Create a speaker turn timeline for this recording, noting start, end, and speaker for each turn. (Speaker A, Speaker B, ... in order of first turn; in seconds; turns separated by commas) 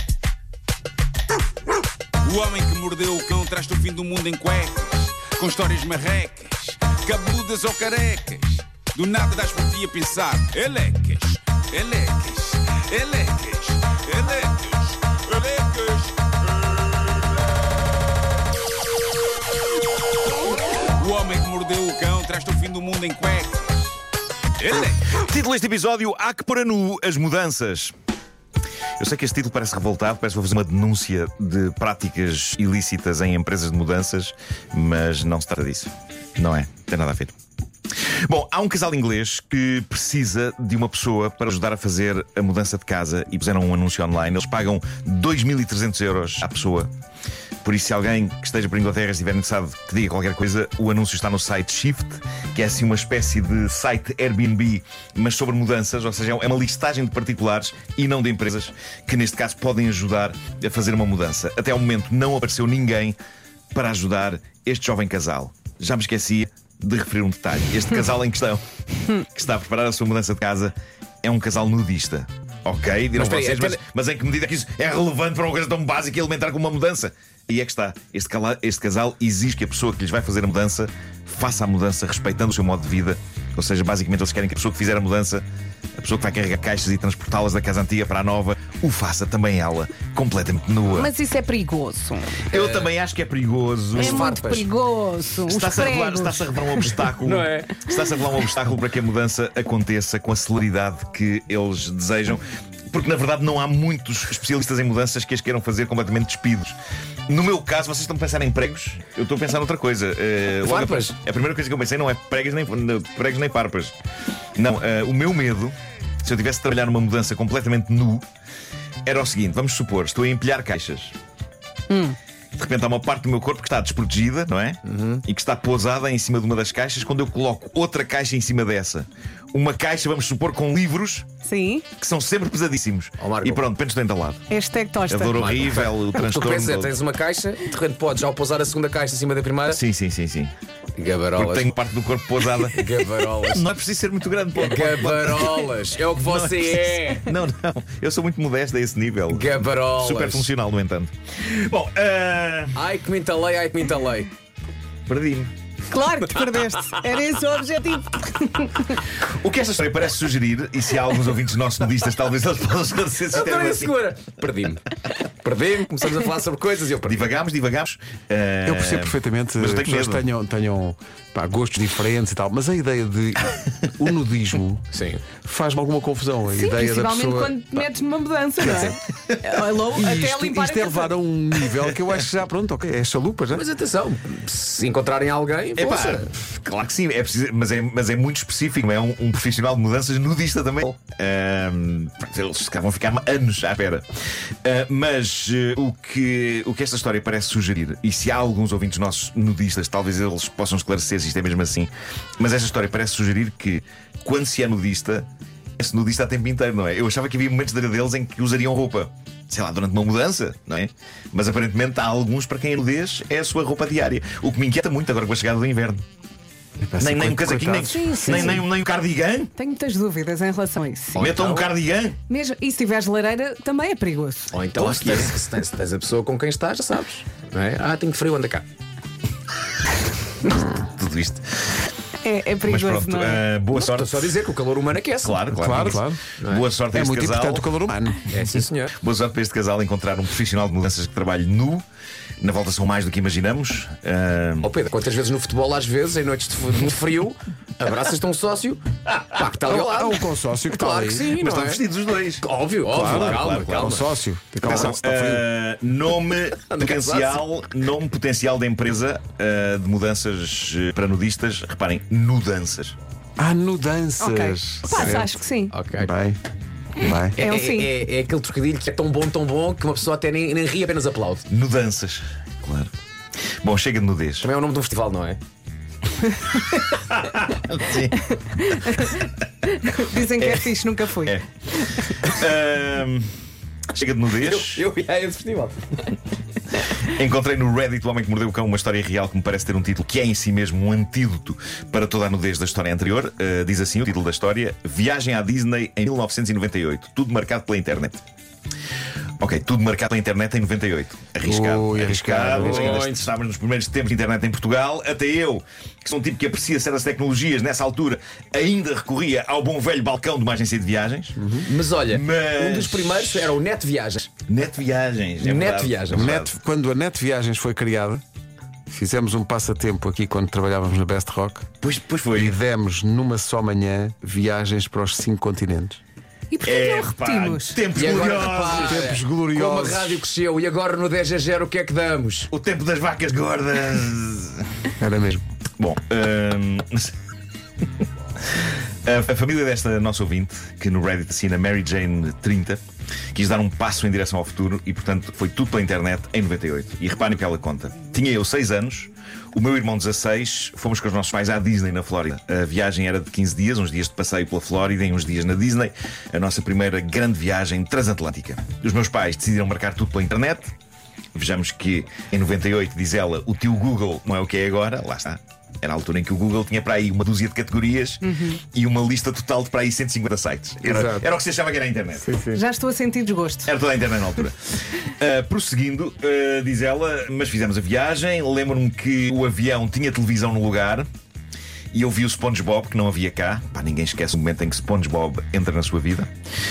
Speaker A: 2.2-17.2, Speaker A: 20.8-24.0, Speaker A: 24.6-25.1, Speaker B: 24.7-27.9, Speaker B: 29.0-37.3, Speaker B: 38.0-46.9, Speaker B: 47.6-63.2, Speaker B: 63.7-85.5, Speaker C: 73.2-73.8, Speaker B: 86.0-91.1, Speaker D: 90.9-92.5, Speaker C: 92.5-92.9, Speaker B: 92.5-94.4, Speaker C: 93.9-94.7, Speaker D: 94.0-97.0, Speaker B: 95.5-106.8, Speaker C: 97.2-97.8, Speaker B: 107.3-114.0, Speaker C: 110.6-111.2, Speaker B: 114.6-118.2, Speaker B: 119.0-121.2, Speaker D: 121.9-122.2, Speaker B: 122.6-131.3, Speaker C: 124.9-125.2, Speaker D: 131.4-131.9, Speaker B: 131.9-134.4, Speaker C: 133.2-133.6, Speaker D: 134.5-135.6, Speaker B: 135.1-137.0, Speaker C: 135.3-139.8, Speaker B: 139.7-140.5, Speaker C: 141.0-141.7, Speaker B: 141.4-142.8, Speaker C: 142.8-143.6, Speaker B: 143.5-152.8, Speaker C: 144.6-147.3, Speaker C: 149.3-150.5, Speaker C: 152.8-154.3, Speaker B: 155.1-155.5, Speaker D: 155.9-159.0, Speaker B: 159.2-164.0, Speaker C: 163.3-164.8, Speaker C: 165.4-167.3, Speaker B: 167.0-170.3, Speaker E: 168.7-174.8, Speaker C: 174.9-175.2, Speaker E: 175.4-177.8, Speaker D: 176.5-181.2, Speaker E: 178.6-179.0, Speaker E: 179.9-183.7, Speaker C: 183.5-186.3, Speaker B: 185.8-194.1, Speaker B: 194.6-216.0, Speaker E: 216.8-218.6, Speaker B: 217.0-219.5, Speaker D: 217.8-218.6, Speaker D: 219.6-221.3, Speaker C: 221.2-221.7, Speaker B: 221.2-222.2, Speaker D: 222.3-224.6, Speaker C: 224.5-228.7, Speaker B: 224.7-225.4, Speaker B: 230.6-231.8, Speaker D: 232.2-233.4, Speaker B: 232.6-234.3, Speaker C: 233.7-236.7, Speaker B: 235.2-237.7, Speaker E: 235.5-236.2, Speaker E: 236.9-238.3, Speaker C: 238.3-238.9, Speaker B: 238.9-241.8, Speaker B: 242.4-244.7, Speaker C: 244.6-251.8, Speaker E: 249.6-251.2, Speaker B: 251.3-254.0, Speaker C: 252.4-254.1, Speaker E: 252.9-255.5, Speaker B: 254.6-262.9, Speaker C: 256.7-257.4, Speaker E: 263.4-265.4, Speaker D: 264.2-265.8, Speaker C: 265.7-266.1, Speaker E: 266.0-266.4, Speaker E: 267.0-267.4, Speaker C: 267.4-271.4, Speaker D: 267.4-267.9, Speaker B: 271.5-272.9, Speaker B: 273.6-274.5, Speaker C: 274.4-275.4, Speaker B: 276.9-279.1, Speaker D: 279.7-281.4, Speaker B: 280.4-280.7, Speaker B: 281.2-283.3, Speaker B: 283.9-284.9, Speaker C: 284.4-286.1, Speaker B: 287.0-298.2, Speaker B: 299.4-311.4, Speaker E: 301.4-303.1, Speaker C: 302.4-303.3, Speaker E: 311.4-311.6, Speaker C: 311.6-314.3, Speaker B: 312.1-313.6, Speaker B: 314.5-316.6, Speaker C: 315.4-316.3, Speaker E: 316.1-318.2, Speaker E: 318.9-321.7, Speaker B: 321.8-322.6, Speaker E: 322.4-326.0, Speaker D: 326.5-327.8, Speaker B: 326.6-329.1, Speaker C: 327.9-332.5, Speaker E: 328.6-330.2, Speaker B: 332.5-334.8, Speaker E: 335.0-335.4, Speaker B: 335.8-337.1, Speaker B: 339.1-342.8, Speaker B: 343.3-360.7, Speaker B: 361.4-372.3, Speaker D: 368.3-368.5, Speaker E: 370.9-371.2, Speaker E: 372.2-372.6, Speaker D: 372.5-373.7, Speaker B: 373.6-381.1, Speaker B: 381.9-386.3